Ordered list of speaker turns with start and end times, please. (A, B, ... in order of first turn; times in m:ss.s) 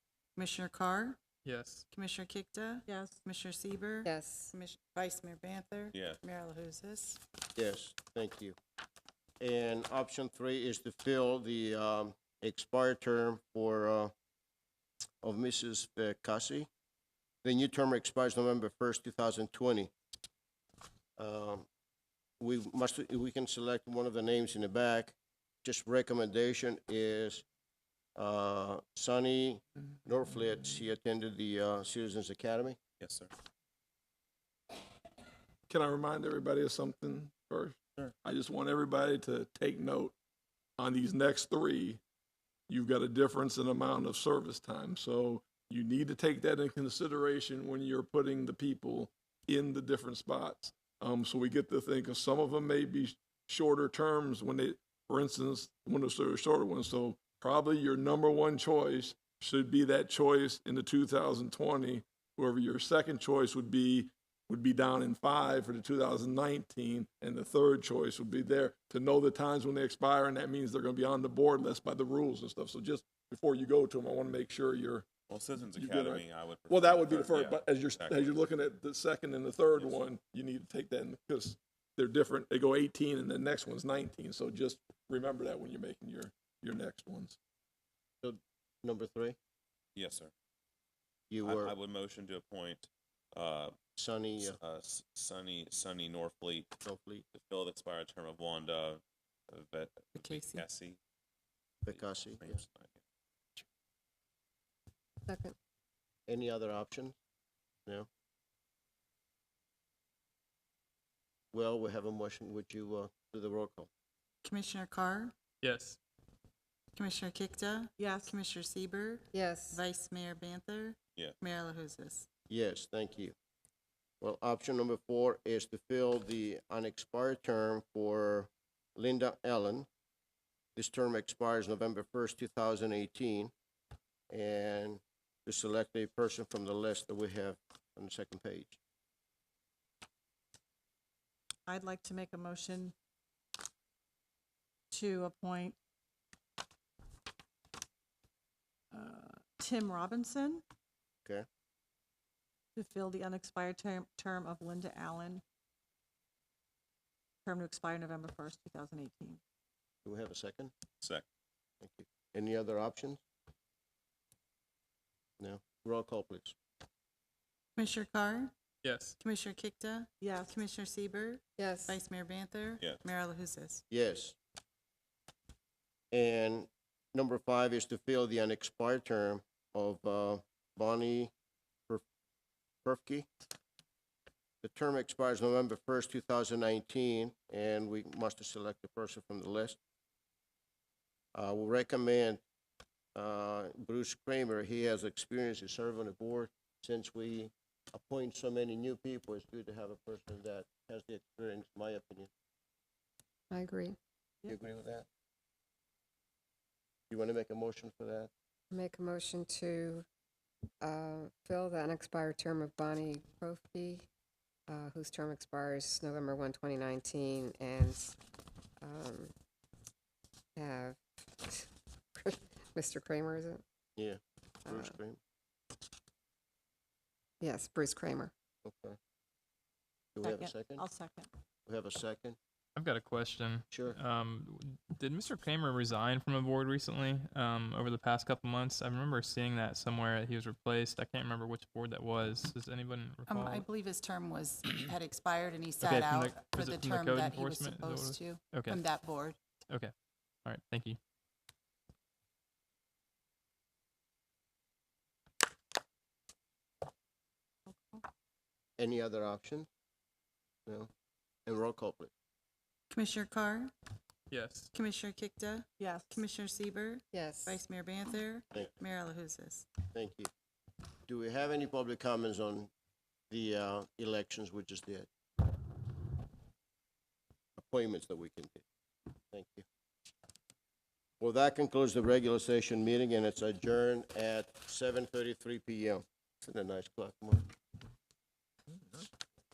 0:00.4-0:01.2 A
0:01.4-0:01.8 B
0:01.9-0:07.2 A
0:02.9-0:03.2 C
0:04.0-0:04.5 D
0:05.9-0:06.2 E
0:07.6-0:08.6 F
0:09.4-0:14.1 F
0:15.2-0:16.7 F
0:17.4-0:19.9 F
0:21.2-0:21.7 F
0:22.4-0:27.4 F
0:28.2-0:32.8 F
0:33.0-0:33.3 E
0:35.7-0:40.2 G
0:40.8-0:42.0 G
0:42.7-1:15.1 G
1:15.3-1:18.4 E
1:15.7-1:27.4 G
1:28.2-1:29.4 F
1:30.0-1:30.3 E
1:31.3-1:31.7 F
1:31.4-1:33.8 E
1:34.0-1:34.6 F
1:34.4-1:36.8 E
1:36.8-1:37.3 F
1:37.3-1:41.0 E
1:40.2-1:40.6 A
1:41.8-1:42.6 F
1:41.9-1:43.0 E
1:45.3-1:45.5 D
1:46.3-1:47.2 F
1:51.5-1:53.9 F
1:54.4-1:55.4 A
1:55.6-1:56.0 B
1:57.0-2:02.3 A
1:58.0-1:58.3 C
1:59.3-1:59.8 D
2:02.5-2:03.4 F
2:04.2-2:09.9 F
2:10.8-2:13.5 F
2:14.3-2:18.8 F
2:21.7-2:22.9 C
2:24.9-2:25.8 C
2:28.9-2:30.6 C
2:32.8-2:35.4 C
2:37.5-2:39.4 C
2:40.0-2:40.7 F
2:41.8-2:43.2 F
2:45.4-2:46.6 F
2:47.8-2:48.5 A
2:48.8-2:49.2 B
2:49.2-2:53.8 A
2:50.2-2:50.6 C
2:51.6-2:52.0 D
2:53.9-2:54.4 F
2:56.1-3:01.3 F
3:02.8-3:03.3 F
3:04.6-3:09.8 F
3:11.3-3:12.4 F
3:13.2-3:22.3 F
3:23.5-3:24.0 D
3:24.5-3:25.1 F
3:27.1-3:28.3 F
3:28.7-3:30.0 D
3:30.8-3:34.1 D
3:34.7-3:38.2 D
3:38.8-3:39.3 D
3:40.6-3:43.6 D
3:44.0-3:45.2 F
3:44.7-3:45.0 D
3:47.4-3:48.3 D
3:48.6-3:49.0 F
3:50.2-3:50.8 F
3:50.2-3:51.3 C
3:51.7-3:52.4 F
3:52.8-4:03.7 B
3:53.7-3:54.0 F
4:03.3-4:09.4 A
4:05.8-4:08.8 B
4:10.4-4:11.0 B
4:17.7-4:18.0 C
4:18.8-4:19.7 F
4:21.5-4:22.1 F
4:22.9-4:23.7 A
4:24.3-4:24.7 B
4:24.7-4:29.7 A
4:25.8-4:26.2 C
4:27.1-4:27.6 D
4:29.9-4:30.3 F
4:31.1-4:32.7 F
4:33.3-4:35.1 F
4:37.6-4:38.6 F
4:39.3-4:39.6 F
4:41.2-4:47.5 F